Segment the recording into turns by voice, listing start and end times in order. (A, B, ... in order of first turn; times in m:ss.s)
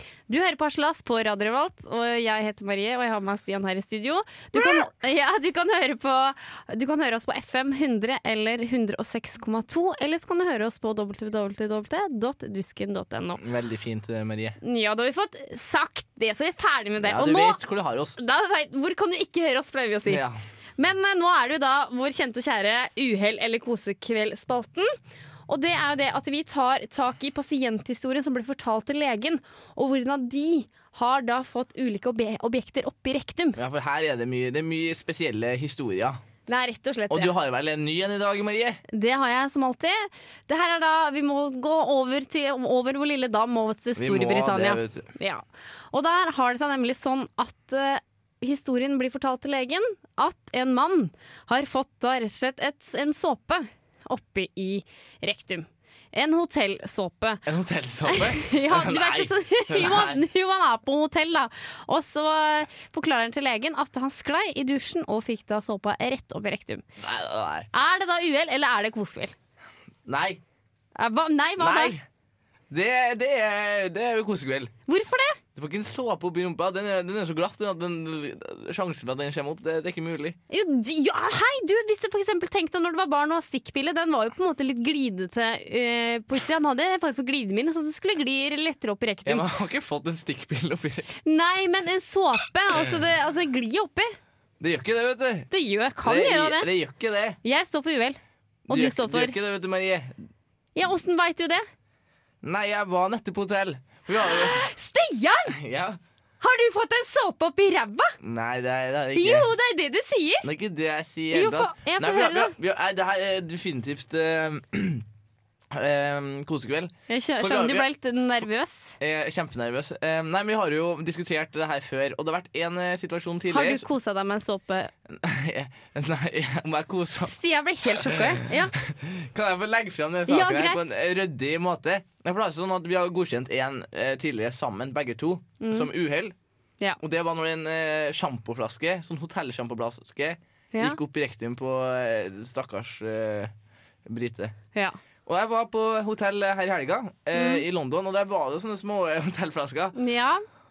0:00.3-0:13.4 A
0:04.5-0:04.9 B
0:13.4-0:14.6 B
0:14.6-0:17.6 A
0:17.0-0:18.2 B
0:18.2-0:20.2 A
0:20.1-0:20.4 B
0:20.8-0:24.9 A
0:25.5-0:33.6 A
0:33.6-0:36.2 B
0:36.5-0:37.3 A
0:37.1-0:38.8 B
0:38.9-0:57.4 A
0:44.0-0:45.1 B
0:57.4-1:00.2 B
0:58.1-1:06.8 A
1:07.0-1:07.7 B
1:07.7-1:09.3 A
1:10.1-1:10.4 B
1:11.0-1:11.9 A
1:11.6-1:12.0 B
1:12.7-1:14.7 B
1:14.9-1:15.4 A
1:15.6-1:20.4 B
1:20.5-1:29.4 A
1:29.2-1:31.1 B
1:31.2-1:34.1 A
1:34.6-1:35.5 B
1:35.5-1:36.7 A
1:36.0-1:37.4 B
1:37.4-1:39.3 A
1:38.7-1:40.2 B
1:40.8-1:41.6 A
1:42.4-1:44.6 B
1:44.1-1:45.5 A
1:45.5-1:46.0 B
1:46.4-1:48.2 A
1:48.2-1:49.5 B
1:49.1-1:50.4 A
1:50.4-1:55.0 B
1:51.3-1:52.5 A
1:55.7-1:57.9 B
1:57.1-1:59.0 A
1:59.0-2:03.9 B
2:03.5-2:04.9 A
2:05.1-2:07.3 B
2:07.3-2:08.7 A
2:07.9-2:16.3 B
2:10.3-2:10.9 A
2:15.6-2:15.9 A
2:17.0-2:23.5 B
2:24.0-2:24.5 B
2:25.2-2:30.0 B
2:27.3-2:27.6 A
2:29.9-2:30.4 A